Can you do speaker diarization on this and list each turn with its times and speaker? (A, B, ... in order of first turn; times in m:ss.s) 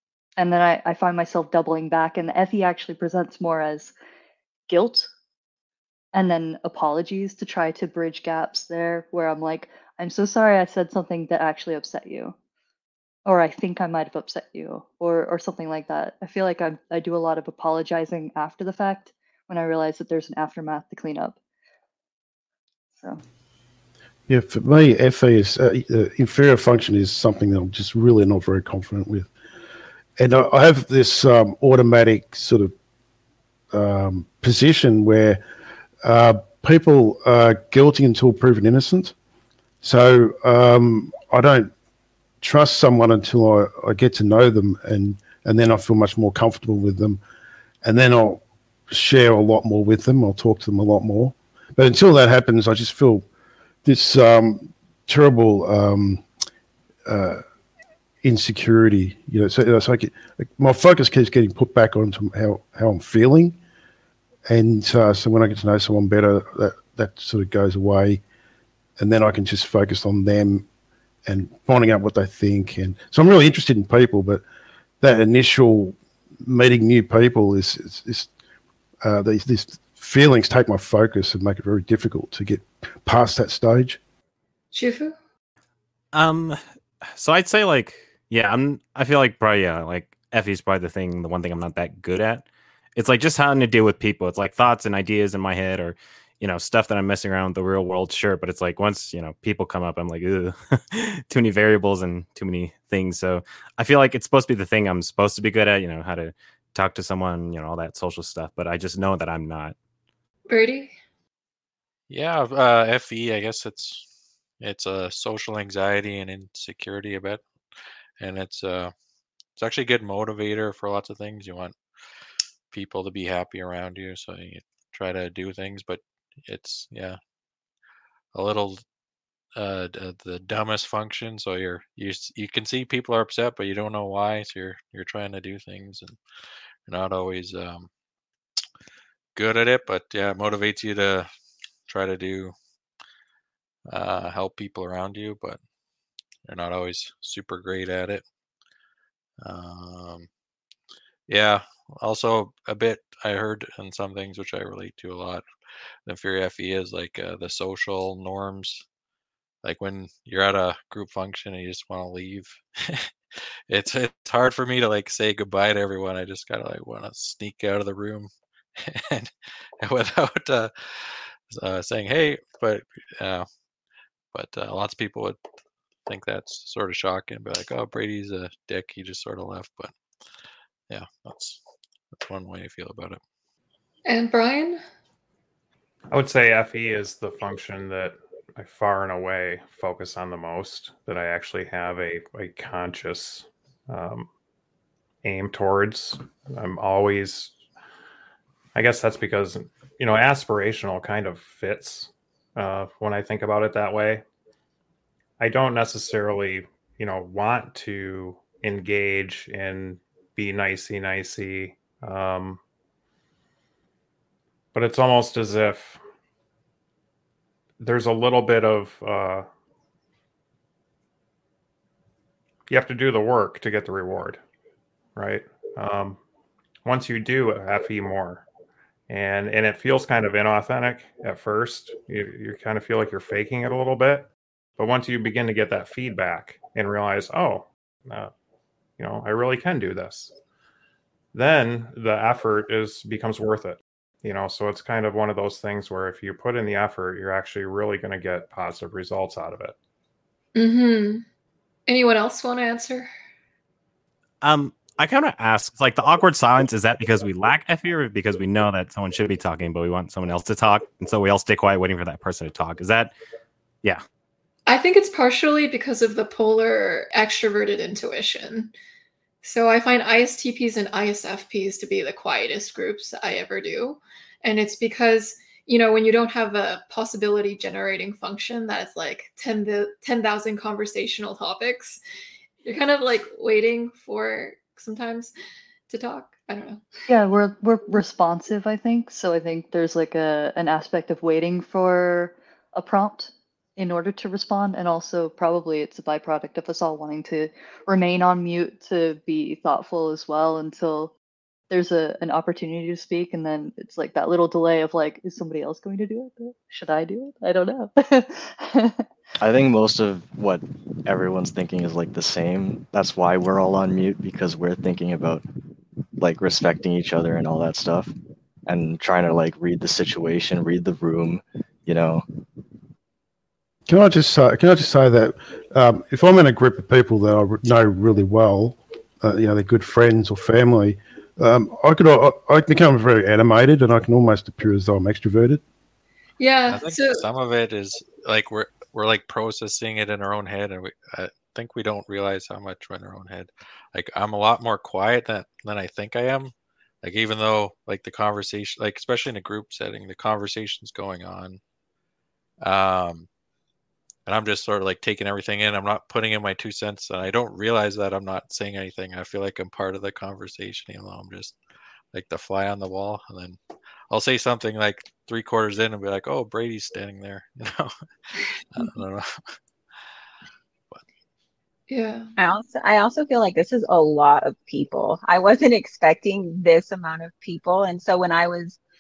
0:00.4-0:03.9 A
0:04.7-0:05.1 A
0:06.1-0:12.4 A
0:13.3-0:21.4 A
0:24.3-0:29.3 B
0:30.2-0:32.7 B
0:33.7-0:35.4 B
0:36.0-0:39.1 B
0:39.8-0:41.7 B
0:42.4-0:47.2 B
0:47.8-0:53.2 B
0:53.8-0:56.2 B
0:57.1-0:57.4 B
0:58.2-1:03.6 B
1:04.5-1:08.2 B
1:09.0-1:10.6 B
1:11.3-1:14.4 B
1:15.0-1:18.3 B
1:19.0-1:24.0 B
1:24.7-1:25.2 C
1:26.1-1:26.6 D
1:27.2-1:32.4 D
1:33.0-1:49.8 D
1:50.5-1:51.0 C
1:52.1-1:54.1 E
1:54.6-1:57.4 E
1:58.2-1:58.9 E
1:59.6-2:01.8 E
2:02.7-2:07.2 E
2:08.3-2:08.8 E
2:09.6-2:16.2 E
2:16.9-2:17.9 E
2:19.4-2:21.3 E
2:21.9-2:22.6 E
2:23.9-2:25.6 E
2:26.5-2:28.2 E
2:29.4-2:30.3 E
2:31.3-2:35.5 E
2:36.1-2:38.8 E
2:39.6-2:53.5 E
2:54.3-2:55.4 E
2:56.1-2:59.9 E
3:00.9-3:01.6 E
3:02.2-3:03.2 E
3:04.1-3:04.8 C
3:06.1-3:14.3 F
3:15.2-3:17.5 F
3:18.8-3:24.2 F
3:25.4-3:32.6 F
3:34.8-3:36.0 F
3:37.8-3:39.5 F
3:42.7-3:44.4 F
3:45.2-3:46.2 F
3:46.8-3:48.4 F
3:49.1-3:58.3 F
3:59.0-4:00.3 F
4:01.3-4:09.8 F
4:10.6-4:11.2 C
4:11.9-4:13.1 C
4:14.4-4:23.2 D
4:24.7-4:28.7 C
4:29.4-4:42.0 C
4:42.6-4:45.3 C
4:45.9-4:46.8 C
4:47.1-5:01.1 A
5:01.7-5:09.1 A
5:09.4-5:15.4 G
5:16.2-5:18.1 G
5:18.7-5:22.2 G
5:23.9-5:35.6 B
5:36.4-5:37.2 C
5:36.7-5:51.6 E
5:52.6-5:53.3 E
5:54.3-6:01.6 E
6:02.1-6:03.6 E
6:04.1-6:08.0 E
6:08.7-6:09.6 E
6:11.9-6:12.3 C
6:12.4-6:18.8 H